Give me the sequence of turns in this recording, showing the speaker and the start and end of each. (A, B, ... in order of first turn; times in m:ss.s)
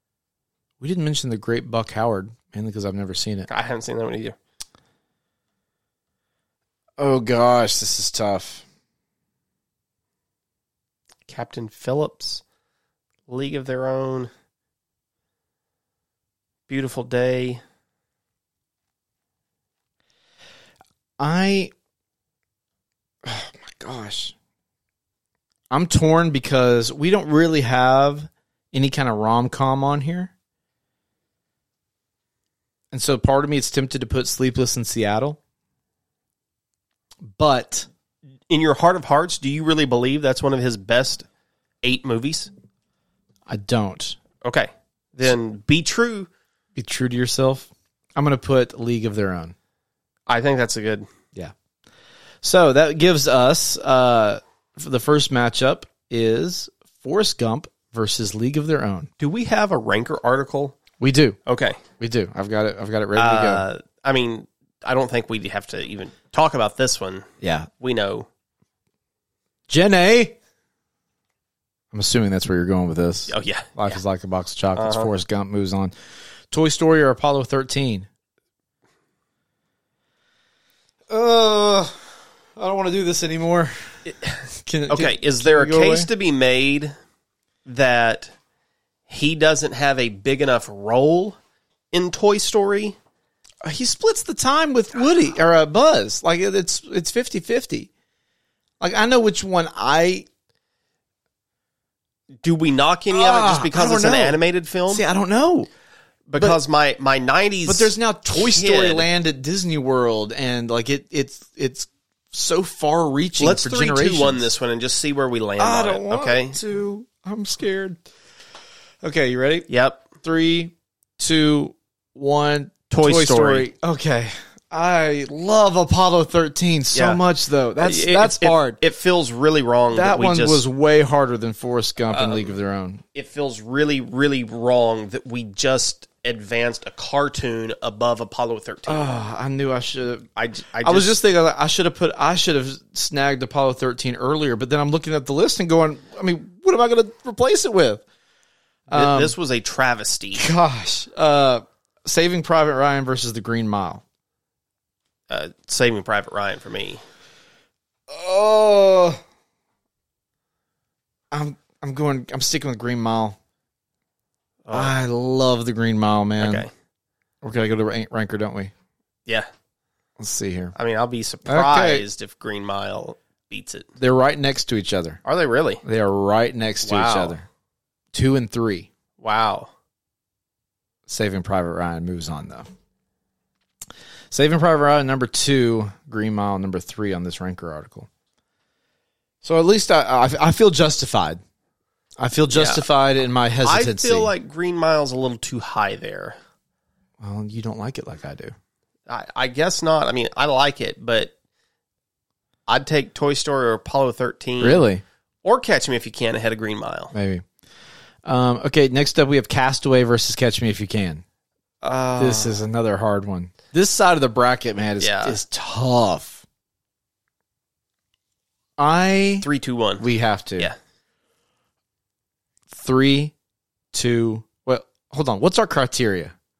0:00.8-0:03.5 A
0:03.5-0:04.4 B
0:07.0-0:08.6 A
0:11.3-0:12.4 B
0:13.3-0:14.3 B
0:16.7-0:17.6 B
0:21.2-0:21.7 A
0:23.2-0:24.3 A
0:25.7-0:30.3 A
0:32.9-0:35.4 A
0:37.3-0:37.9 A
0:38.5-0:41.2 B
0:41.8-0:42.5 B
0:43.5-0:44.2 A
0:44.4-0:46.3 B
0:46.8-0:49.5 A
0:50.3-0:51.1 B
0:52.4-0:59.1 A
0:59.2-1:00.8 B
1:01.0-1:01.4 A
1:01.4-1:01.8 B
1:02.0-1:03.6 A
1:03.2-1:07.3 B
1:07.4-1:07.7 A
1:07.8-1:08.3 B
1:09.7-1:10.4 A
1:11.9-1:15.9 A
1:13.3-1:14.0 B
1:14.8-1:15.1 B
1:16.5-1:18.1 A
1:21.1-1:23.7 A
1:24.0-1:24.4 B
1:24.6-1:26.1 A
1:24.9-1:26.9 B
1:27.6-1:28.3 B
1:29.1-1:31.4 B
1:31.9-1:33.0 B
1:33.6-1:37.9 A
1:38.8-1:40.3 A
1:42.4-1:45.0 B
1:43.1-1:45.7 A
1:46.3-1:49.1 B
1:47.6-1:54.5 A
1:53.4-1:56.6 B
1:55.6-1:58.0 A
1:59.0-2:08.8 A
1:59.7-2:00.0 B
2:02.9-2:03.7 B
2:06.9-2:07.2 B
2:07.8-2:10.6 B
2:09.9-2:13.0 A
2:12.1-2:12.5 B
2:13.1-2:19.1 B
2:18.9-2:20.3 A
2:20.4-2:21.1 B
2:20.8-2:28.0 A
2:28.9-2:29.3 A
2:28.9-2:30.5 B
2:30.4-2:34.0 A
2:35.3-2:37.0 B
2:38.1-2:39.2 A
2:41.3-2:43.4 A
2:44.6-2:44.9 B
2:44.7-2:46.6 A
2:46.4-2:46.7 B
2:47.4-2:48.7 A
2:50.2-2:50.7 A
2:50.7-2:53.9 B
2:51.4-2:52.0 A
2:54.0-2:55.2 A
2:55.2-2:55.8 B
2:55.8-2:57.4 A
2:56.8-2:57.4 B
2:58.1-2:58.9 A
2:59.2-2:59.7 B
3:01.1-3:02.7 A
3:04.3-3:08.1 A
3:09.4-3:11.4 A
3:12.2-3:14.3 A
3:12.5-3:12.8 B
3:13.6-3:16.4 B
3:17.2-3:18.5 A
3:19.1-3:21.3 B
3:22.7-3:24.8 B
3:24.6-3:25.0 A
3:25.4-3:27.1 B
3:27.1-3:27.4 A
3:28.2-3:31.2 A
3:31.8-3:32.6 B
3:32.2-3:36.4 A
3:35.0-3:35.4 B
3:38.8-3:39.5 A
3:39.4-3:40.1 B
3:40.0-3:40.7 A
3:42.7-3:43.3 A
3:43.9-3:46.3 A